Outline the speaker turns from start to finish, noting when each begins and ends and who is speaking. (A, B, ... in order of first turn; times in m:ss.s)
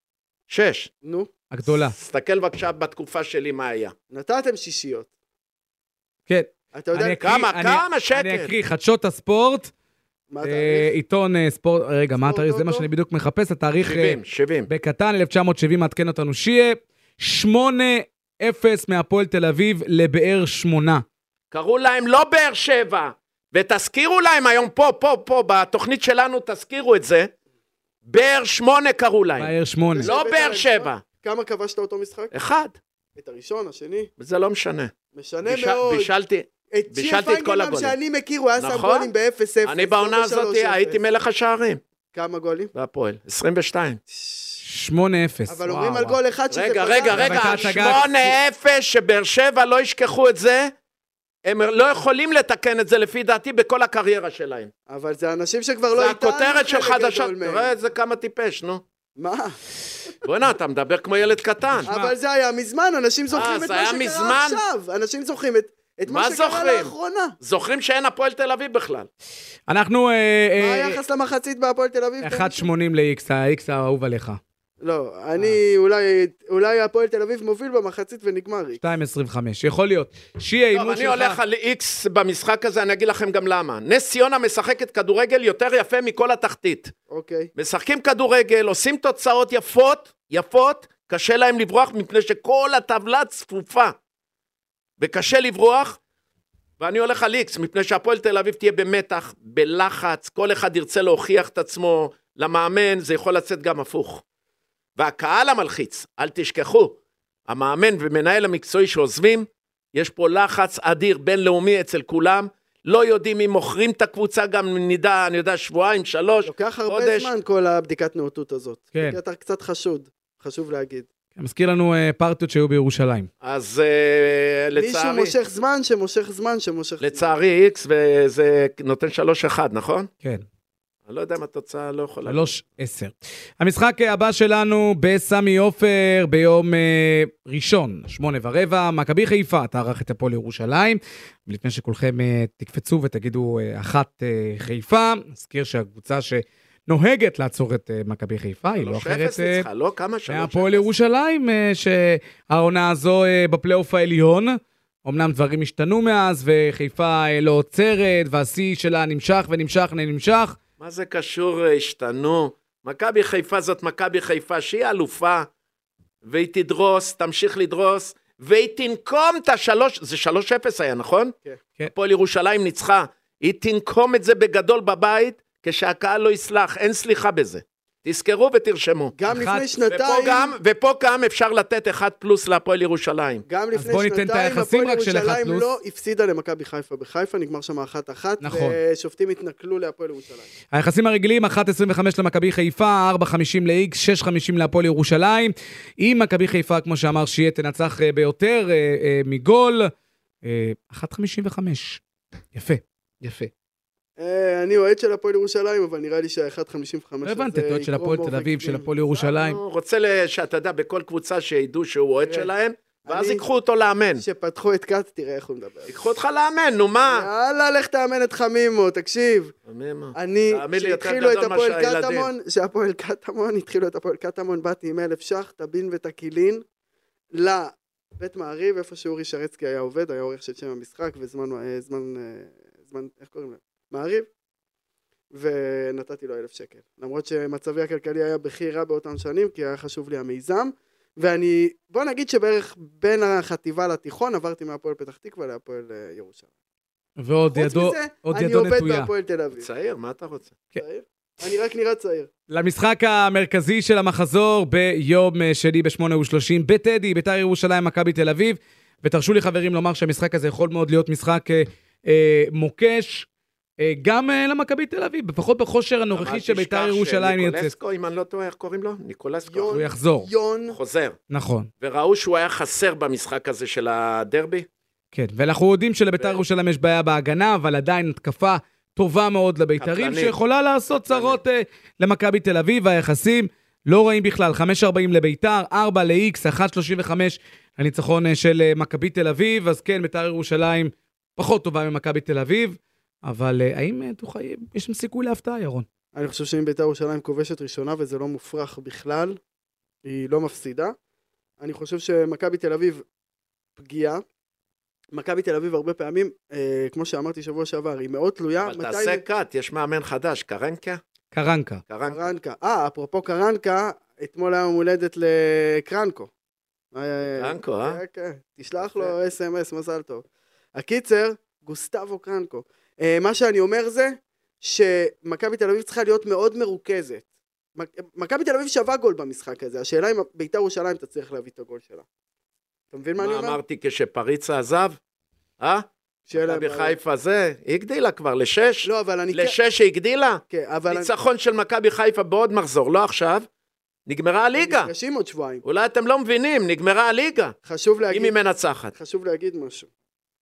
0:00.5-0:00.9 A
0:01.0-0:01.3 B
0:01.5-0:01.9 C
0:01.7-0:03.9 A
0:04.1-0:05.1 B
0:06.3-0:09.7 C
0:06.7-0:07.3 B
0:07.2-0:08.5 A
0:10.3-0:10.9 B
0:10.4-0:21.0 C
0:12.2-0:12.9 B
0:13.8-0:14.7 A
0:21.5-0:27.3 A
0:28.0-0:29.5 A
0:29.4-0:30.1 C
0:29.9-0:32.3 B
0:30.0-0:31.0 A
0:32.3-0:32.8 A
0:33.2-0:34.1 B
0:34.2-0:34.9 A
0:35.1-0:36.1 B
0:35.4-0:37.9 A
0:36.7-0:41.0 B
0:38.6-0:39.1 A
0:39.6-0:41.8 A
0:42.1-0:42.7 B
0:42.7-0:44.0 A
0:44.1-0:44.6 B
0:44.6-0:46.2 C
0:45.5-0:48.4 B
0:46.5-0:50.7 A
0:47.1-0:48.0 C
0:51.4-0:54.7 A
0:54.9-0:57.7 B
0:55.9-0:58.8 A
0:59.2-0:59.6 B
1:00.2-1:01.9 A
1:01.8-1:02.1 C
1:01.8-1:07.3 B
1:03.3-1:04.6 A
1:06.1-1:09.1 A
1:09.7-1:11.0 C
1:10.6-1:12.7 B
1:12.2-1:14.4 C
1:14.8-1:18.8 B
1:18.8-1:21.4 C
1:20.7-1:26.9 A
1:27.1-1:27.5 B
1:27.6-1:33.9 A
1:35.0-1:36.0 A
1:36.8-1:44.2 A
1:45.0-1:47.0 A
1:47.5-1:57.3 A
1:56.4-2:01.1 B
2:01.4-2:03.3 C
2:03.4-2:05.3 A
2:04.8-2:07.3 B
2:07.0-2:10.1 A
2:11.0-2:12.5 A
2:12.2-2:29.7 C
2:28.7-2:30.9 A
2:30.3-2:40.6 C
2:40.8-2:45.5 A
2:46.2-2:51.3 A
2:51.9-2:59.1 A
2:59.1-3:00.5 B
2:59.3-2:59.7 C
2:59.9-3:03.4 A
3:03.4-3:10.5 B
3:03.7-3:05.7 C
3:08.4-3:08.8 C
3:10.7-3:19.9 C
3:20.4-3:22.0 C
3:22.5-3:23.5 C
3:24.2-3:29.2 B
3:27.2-3:29.6 C
3:29.2-3:34.2 A
3:32.2-3:32.5 B
3:33.0-3:33.4 B
3:34.2-3:35.9 B
3:35.9-3:37.3 A
3:37.0-3:39.5 B
3:39.7-3:42.3 A
3:40.1-3:46.6 B
3:47.3-3:54.3 B
3:55.3-4:06.4 B
4:07.2-4:09.1 C
4:07.5-4:09.7 B
4:09.6-4:10.5 A
4:10.8-4:12.3 B
4:12.5-4:23.3 C
4:23.8-4:27.7 C
4:26.1-4:29.8 A
4:29.5-4:30.8 B
4:29.7-4:30.3 C
4:30.7-4:31.2 A
4:31.3-4:31.7 C
4:31.8-4:34.7 A
4:35.1-4:55.8 C
4:39.8-4:40.3 A
4:41.1-4:41.4 A
4:56.1-4:59.4 B
5:00.0-5:01.0 B
5:01.6-5:03.0 B
5:03.8-5:04.2 B
5:05.1-5:09.2 B
5:08.6-5:11.0 A
5:11.3-5:11.8 C
5:11.9-5:12.2 A
5:12.1-5:16.3 B
5:16.9-5:27.2 B
5:17.4-5:18.0 A
5:18.8-5:19.1 A
5:27.8-5:32.0 B
5:32.9-5:33.6 B
5:33.2-5:35.0 A
5:35.6-5:43.4 A
5:36.3-5:37.0 B
5:38.8-5:39.6 B
5:40.5-5:41.1 B
5:44.1-5:44.9 A
5:44.6-5:45.6 B
5:45.6-5:47.5 A
5:47.6-5:48.3 B
5:48.1-5:48.9 A
5:48.9-5:49.9 B